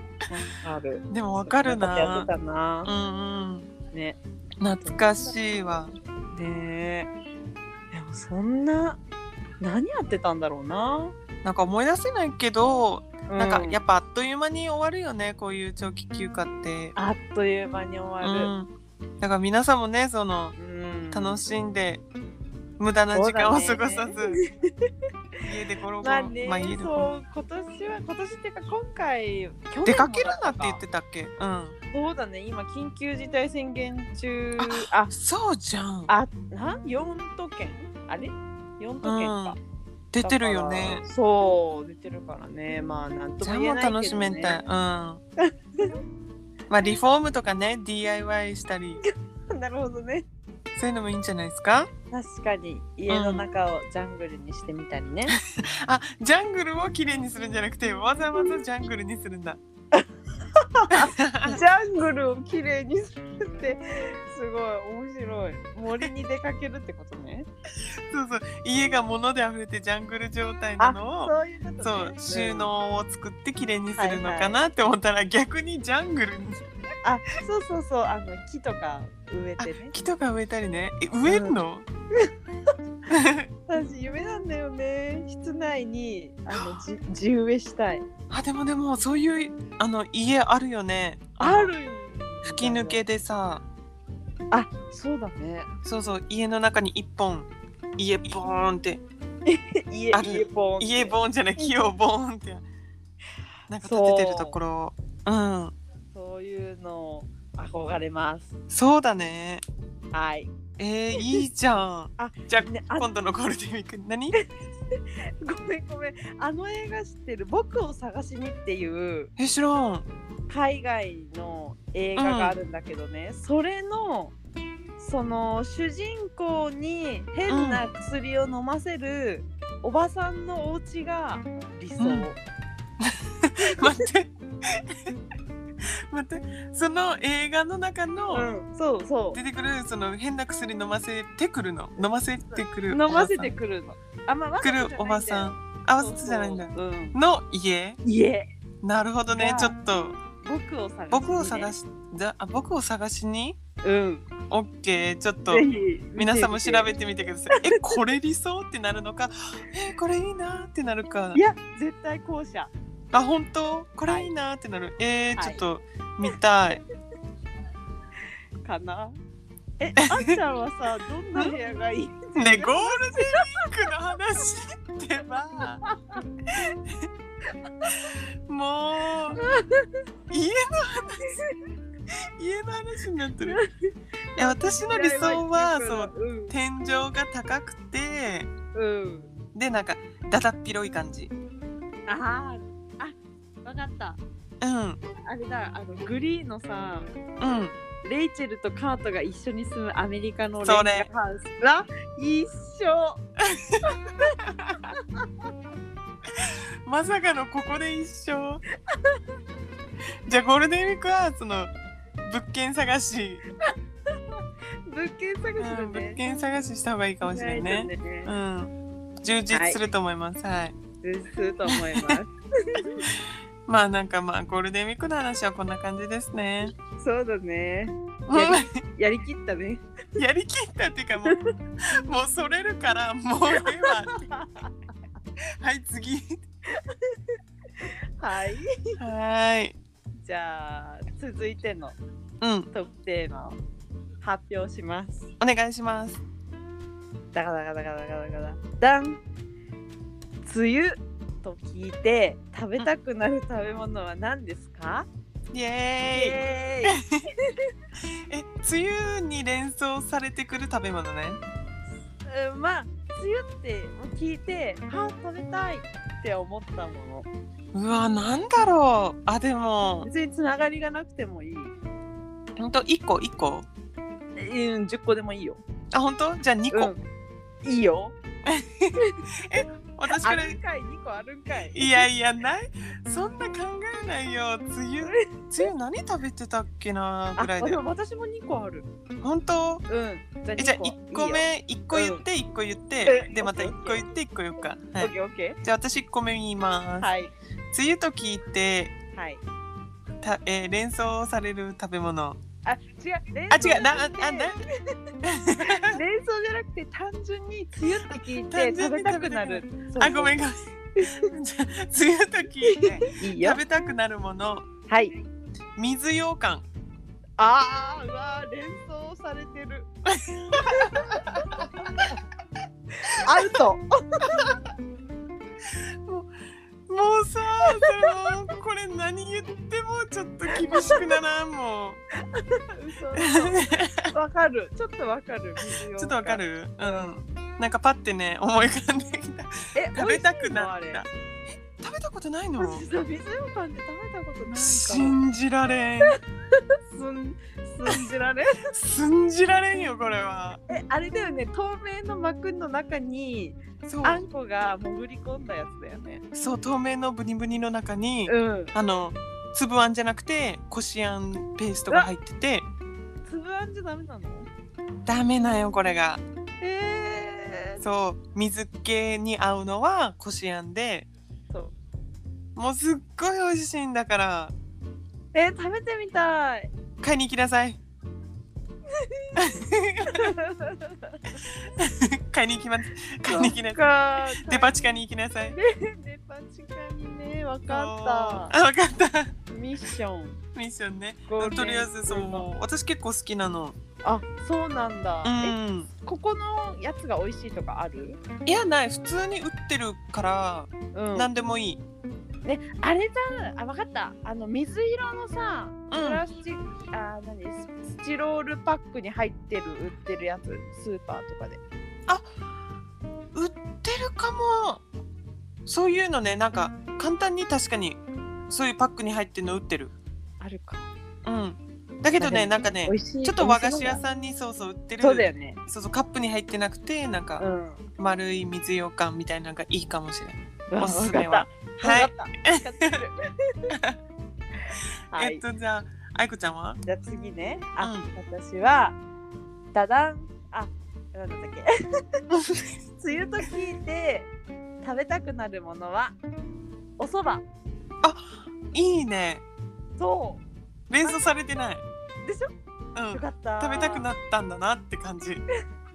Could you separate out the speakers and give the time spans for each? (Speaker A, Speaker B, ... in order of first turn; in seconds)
Speaker A: 0.3-2.9, 3.9-4.2, 4.8-5.3, 6.3-7.1, 7.9-9.0, 9.6-11.1, 13.3-13.8, 17.0-18.5, 20.6-21.4, 23.1-24.9, 26.0-30.8, 31.9-35.1, 36.1-39.6, 40.2-44.6, 45.4-45.9, 49.0-50.3, 52.1-55.4, 60.6-67.5, 70.8-72.7, 74.0-74.6, 77.0-79.9, 81.3-81.5, 83.7-88.0, 91.4-93.0, 94.5-95.7, 99.5-101.9, 103.8-104.6, 106.1-108.5, 110.1-110.5, 112.2-113.1, 115.4-119.3, 120.5-124.3, 125.0-132.4, 138.3-139.4, 142.5-147.2, 148.0-148.5, 149.3-149.8, 150.4-151.8, 153.8-154.3, 155.5-156.9, 161.3-162.7, 165.4-165.6, 168.6-169.2, 169.8-173.6, 179.4-180.0, 184.3-186.5, 188.7-189.3, 192.1-194.2, 195.2-197.1, 198.0-203.2, 203.9-205.0, 208.9-209.2, 214.3-216.2, 217.2-218.3, 219.5-219.8, 221.0-223.1, 226.9-229.8, 233.5-234.7, 236.7-237.2, 238.2-238.6, 240.2-242.0, 242.7-243.6, 244.2-245.3, 247.3-249.2, 250.4-255.1, 256.1-257.7, 262.3-267.3, 270.0-271.8, 274.4-275.6, 276.7-277.0, 277.6-278.1, 280.1-282.1, 285.0-285.3, 287.4-288.9, 289.9-292.2, 293.0-294.1, 295.0-295.6, 297.0-297.4, 299.1-299.4, 302.6-304.7, 305.6-310.4, 311.0-311.2, 312.6-313.6, 314.9-315.1, 317.4-319.9, 320.5-321.9, 323.2-324.5, 330.5-331.2, 332.3-337.1, 339.8-341.0, 342.6-345.1, 346.1-348.7, 350.7-356.2, 358.3-358.8, 363.2-364.5, 366.6-367.8, 371.5-371.8, 375.3-376.7, 379.0-379.4, 380.1-381.4, 383.3-384.8, 385.6-388.5, 389.5-390.4, 391.3-392.5, 394.0-398.2, 400.9-401.3, 402.4-411.6, 420.4-420.8, 422.2-424.0, 425.0-425.6, 427.4-427.8, 430.7-433.5, 435.1-435.4, 436.8-439.0, 439.7-441.7, 443.0-444.3, 444.8-446.2, 447.0-447.4, 450.0-450.4, 452.2-452.5, 453.1-454.0
Speaker B: 1.1-2.3, 2.9-3.7, 4.6-5.9, 11.4-16.9, 18.2-20.5, 21.1-22.0, 22.8-24.4, 25.4-27.1, 29.9-31.8, 34.6-36.1, 39.0-39.6, 40.1-41.0, 43.4-45.2, 46.7-49.0, 50.8-51.9, 53.1-53.5, 55.9-59.6, 61.0-61.6, 68.1-76.6, 79.6-81.8, 83.1-83.5, 88.3-91.7, 92.4-93.6, 95.8-99.0, 100.1-102.6, 103.7-105.8, 108.7-109.6, 110.8-114.4, 119.4-120.0, 122.2-122.6, 127.5-127.8, 132.0-132.3, 133.5-135.1, 136.1-138.5, 139.3-143.5, 144.6-148.0, 148.8-150.2, 151.1-153.6, 154.5-155.7, 156.2-161.4, 163.1-166.8, 172.3-175.8, 177.9-179.4, 180.3-181.4, 182.4-183.6, 184.4-188.5, 189.5-191.3, 194.6-195.0, 197.4-197.8, 200.6-201.1, 206.4-208.6, 210.3-211.7, 212.2-213.4, 215.6-220.8, 221.7-222.2, 223.7-226.7, 228.3-228.8, 230.2-234.2, 235.6-236.4, 239.0-239.8, 242.4-242.7, 245.4-246.2, 255.5-257.2, 258.3-261.4, 267.7-270.1, 272.6-273.7, 275.9-277.0, 278.5-280.6, 281.7-287.8, 289.2-289.9, 290.6-295.1, 295.6-297.1, 297.7-298.9, 300.2-302.4, 303.5-304.6, 305.2-306.0, 308.1-314.6, 315.8-316.6, 320.5-321.1, 326.1-326.3, 326.9-332.0, 333.2-334.1, 336.0-341.1, 341.8-342.8, 344.5-346.2, 348.7-350.6, 353.9-354.2, 356.3-362.6, 365.1-366.2, 367.8-371.1, 372.6-374.5, 377.0-377.8, 379.4-380.3, 381.8-385.6, 387.7-389.3, 390.5-393.8, 395.2-395.9, 398.5-401.8, 405.9-406.2, 413.3-414.8, 415.6-419.9, 421.2-427.4, 428.0-432.6, 435.1-436.8, 437.8-438.1, 442.3-442.6, 448.0-449.4, 450.9-451.8, 452.9-455.4